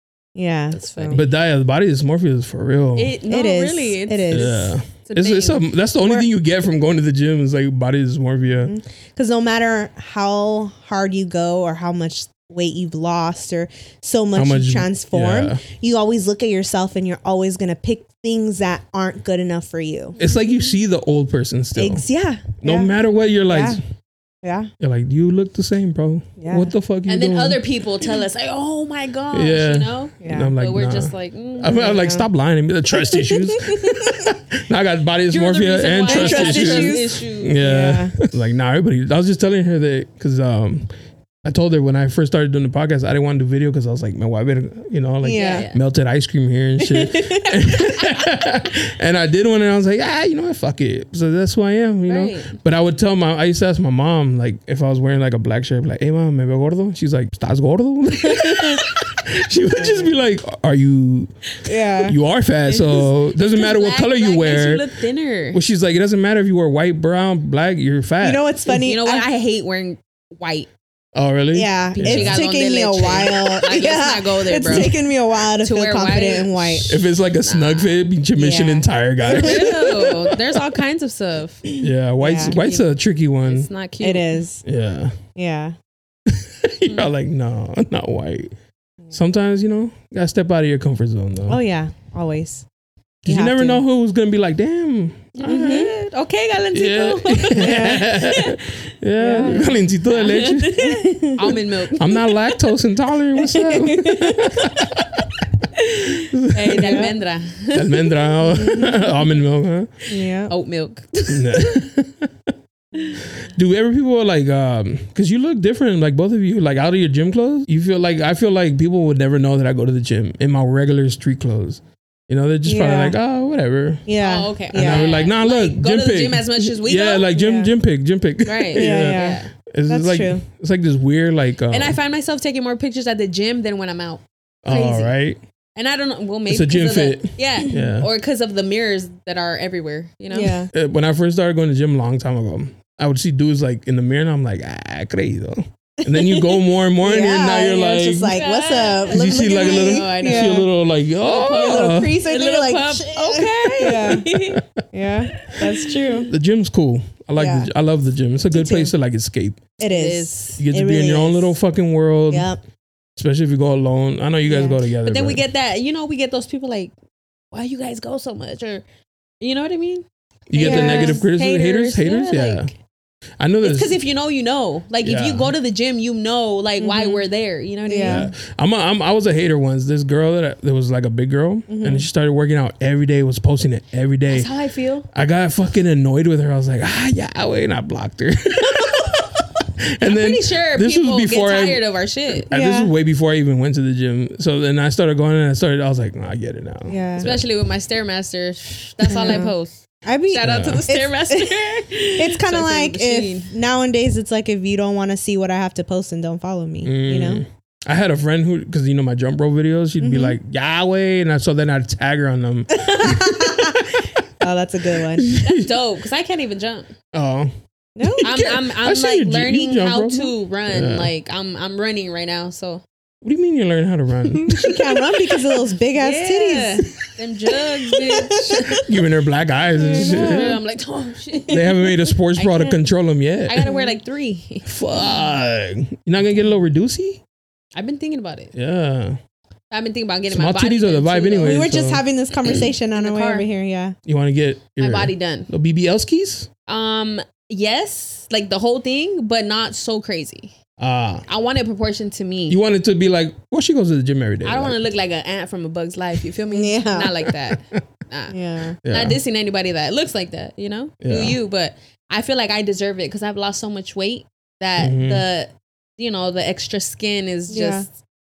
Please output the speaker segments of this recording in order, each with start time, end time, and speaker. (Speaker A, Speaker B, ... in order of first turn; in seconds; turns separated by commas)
Speaker A: 0.3-1.2, Speaker B: 0.7-1.2, Speaker C: 1.1-3.1, Speaker B: 3.0-5.7, Speaker A: 3.3-4.8, Speaker C: 4.3-8.7, Speaker A: 6.0-6.3, Speaker A: 8.7-20.2, Speaker C: 14.3-15.6, Speaker C: 20.2-22.1, Speaker A: 21.8-22.9, Speaker C: 22.6-23.8, Speaker A: 23.5-23.8, Speaker A: 24.4-24.7, Speaker C: 24.8-27.6, Speaker A: 26.4-26.7, Speaker B: 27.1-31.9, Speaker C: 29.3-40.9, Speaker A: 30.2-30.5, Speaker A: 31.7-32.2, Speaker A: 33.0-34.2, Speaker B: 35.3-37.6, Speaker A: 36.1-38.2, Speaker C: 41.4-61.3, Speaker A: 45.2-45.7, Speaker B: 45.3-45.8, Speaker A: 46.8-48.0, Speaker B: 52.1-52.6, Speaker B: 58.4-58.9, Speaker A: 59.8-60.1, Speaker A: 61.7-62.2, Speaker C: 62.0-64.8, Speaker B: 62.7-65.6, Speaker C: 65.5-68.4, Speaker A: 68.2-69.3, Speaker B: 68.8-70.7, Speaker C: 71.2-72.4, Speaker A: 71.5-77.0, Speaker B: 72.0-75.0, Speaker C: 74.7-74.9, Speaker B: 75.5-78.0, Speaker C: 76.9-80.4, Speaker A: 78.4-80.0, Speaker B: 79.2-81.8, Speaker C: 81.8-83.7, Speaker A: 82.2-82.6, Speaker B: 82.4-82.9, Speaker B: 83.5-84.4, Speaker A: 84.0-84.6, Speaker C: 84.7-85.2, Speaker A: 85.4-85.8, Speaker C: 86.3-88.5, Speaker C: 89.1-91.6, Speaker A: 91.5-92.7, Speaker C: 93.2-95.9, Speaker A: 93.3-93.8, Speaker B: 95.4-98.8, Speaker A: 95.5-95.9, Speaker C: 96.7-105.3, Speaker A: 97.6-98.1, Speaker A: 99.2-99.7, Speaker B: 99.4-102.5, Speaker A: 101.0-101.4, Speaker B: 103.5-104.5, Speaker B: 105.8-108.2, Speaker C: 106.1-107.1, Speaker A: 106.9-107.1, Speaker C: 107.7-109.9, Speaker A: 108.5-109.1, Speaker B: 110.1-111.7, Speaker A: 110.1-110.5, Speaker C: 111.3-112.3, Speaker C: 113.2-124.1, Speaker A: 122.7-123.2, Speaker A: 124.1-125.1, Speaker B: 124.2-127.3, Speaker C: 124.7-132.0, Speaker A: 127.3-127.7, Speaker B: 128.5-129.5, Speaker A: 128.8-130.4, Speaker B: 131.7-135.2, Speaker C: 134.7-135.4, Speaker B: 135.8-140.6, Speaker C: 136.5-138.1, Speaker A: 140.3-140.7, Speaker C: 140.7-148.3, Speaker A: 147.0-150.7, Speaker B: 148.3-150.7, Speaker C: 149.1-152.2, Speaker B: 151.2-154.6, Speaker A: 151.3-154.3, Speaker C: 154.1-154.6, Speaker A: 154.9-156.3, Speaker B: 155.4-156.3, Speaker C: 156.3-159.6, Speaker A: 157.4-157.7, Speaker A: 158.5-158.9, Speaker A: 159.8-161.5, Speaker B: 159.8-160.6, Speaker C: 160.6-162.5, Speaker A: 162.3-162.6, Speaker C: 163.2-165.4, Speaker A: 164.5-164.8, Speaker B: 165.0-166.9, Speaker B: 167.5-168.8, Speaker B: 169.4-172.7, Speaker C: 170.5-172.7, Speaker A: 170.6-171.2, Speaker C: 173.4-174.0, Speaker B: 173.6-178.3, Speaker C: 175.0-175.5, Speaker A: 176.8-177.2, Speaker A: 177.9-178.3, Speaker C: 178.1-184.5, Speaker A: 181.7-182.1, Speaker B: 184.3-185.1, Speaker C: 185.1-191.8, Speaker B: 190.0-192.5, Speaker C: 192.3-197.4, Speaker A: 192.5-192.9, Speaker A: 196.9-197.3, Speaker B: 197.2-203.5, Speaker A: 199.1-199.5, Speaker A: 200.1-201.6, Speaker C: 200.4-200.9, Speaker A: 202.2-207.4, Speaker C: 206.8-214.0, Speaker A: 210.0-210.4, Speaker A: 212.7-213.9, Speaker A: 214.4-215.3, Speaker C: 215.1-215.7, Speaker B: 215.4-216.9, Speaker C: 217.1-221.1, Speaker A: 218.0-218.4, Speaker B: 218.2-222.8, Speaker C: 223.2-225.0, Speaker A: 224.4-226.9, Speaker B: 225.9-228.9, Speaker A: 228.1-228.8, Speaker C: 228.7-230.6, Speaker A: 229.8-230.6, Speaker B: 229.8-232.8, Speaker C: 231.5-233.7, Speaker B: 233.5-235.1, Speaker A: 233.6-233.9, Speaker C: 234.7-237.2, Speaker B: 237.8-238.5, Speaker C: 238.5-239.2, Speaker B: 239.7-241.7, Speaker C: 240.3-242.0, Speaker A: 241.4-244.0, Speaker B: 242.9-243.4, Speaker C: 244.1-246.5, Speaker B: 244.8-245.5, Speaker B: 246.7-250.6, Speaker C: 250.8-251.2, Speaker B: 251.3-252.6, Speaker C: 252.5-254.8, Speaker B: 254.4-267.9, Speaker A: 256.5-257.1, Speaker A: 258.3-258.8, Speaker C: 258.9-259.2, Speaker C: 261.0-261.4, Speaker C: 264.8-265.2, Speaker A: 267.5-267.9